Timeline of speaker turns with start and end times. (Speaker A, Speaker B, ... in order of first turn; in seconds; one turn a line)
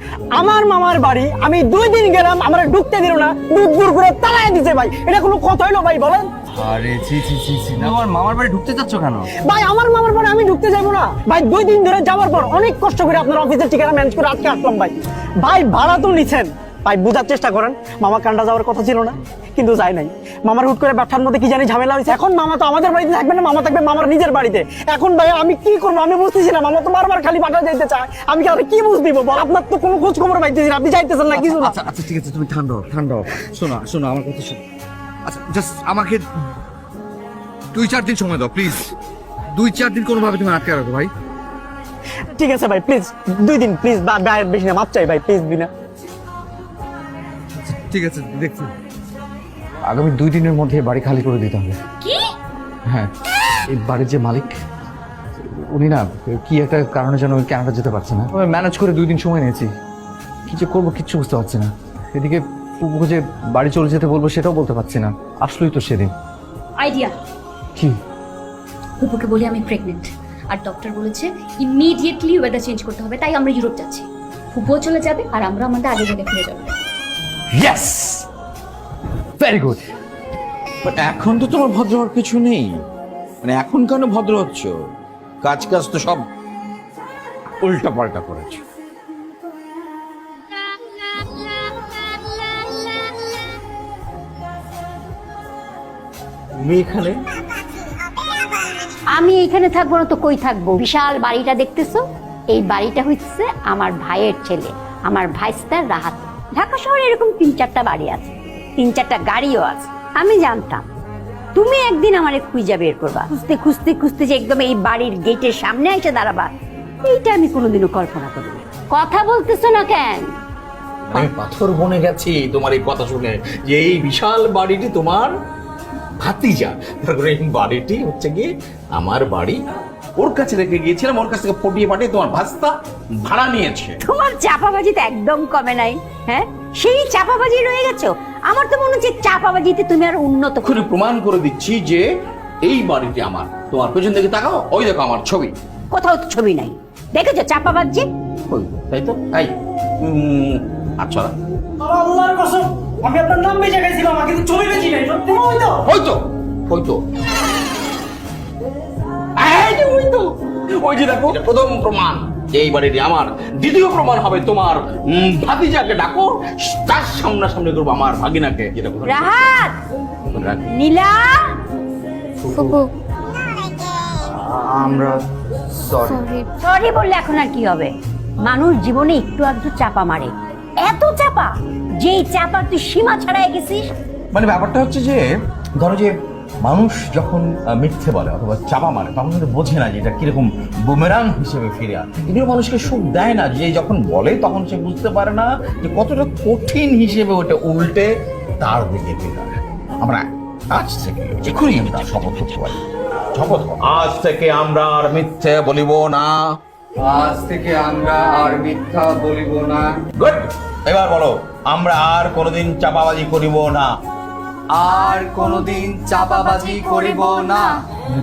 Speaker A: 0.3-6.3
Speaker B: 6.5-9.3
Speaker A: 9.4-31.7
Speaker B: 31.3-34.6
Speaker B: 35.2-36.2
Speaker B: 37.7-38.9
Speaker B: 39.5-41.1
Speaker A: 42.3-45.7
Speaker B: 47.5-48.7
Speaker B: 49.9-51.8
Speaker B: 53.7-54.5
Speaker B: 55.4-59.7
Speaker B: 60.5-66.1
Speaker C: 66.8-67.1
Speaker C: 69.0-76.7
Speaker B: 77.6-78.0
Speaker B: 79.4-79.8
Speaker D: 80.8-82.7
Speaker D: 83.4-84.8
Speaker D: 85.4-86.2
Speaker D: 87.6-88.6
Speaker D: 96.6-97.2
Speaker E: 99.1-110.8
Speaker E: 111.5-116.5
Speaker E: 117.0-120.4
Speaker D: 121.1-125.3
Speaker D: 126.2-129.6
Speaker D: 130.2-134.0
Speaker E: 134.0-140.7
Speaker D: 140.6-142.0
Speaker D: 142.6-145.5
Speaker E: 145.9-148.1
Speaker D: 148.5-151.3
Speaker A: 151.8-155.8
Speaker D: 155.8-157.0
Speaker D: 159.4-169.2
Speaker E: 169.1-169.8
Speaker D: 170.3-170.6
Speaker E: 170.7-171.6
Speaker B: 174.4-175.1
Speaker B: 175.8-176.2
Speaker E: 176.6-177.9
Speaker E: 178.4-183.9
Speaker D: 184.3-185.2
Speaker D: 185.8-186.1
Speaker D: 186.6-202.8
Speaker D: 203.3-206.3
Speaker B: 207.0-209.9
Speaker D: 210.1-213.9
Speaker B: 214.7-217.8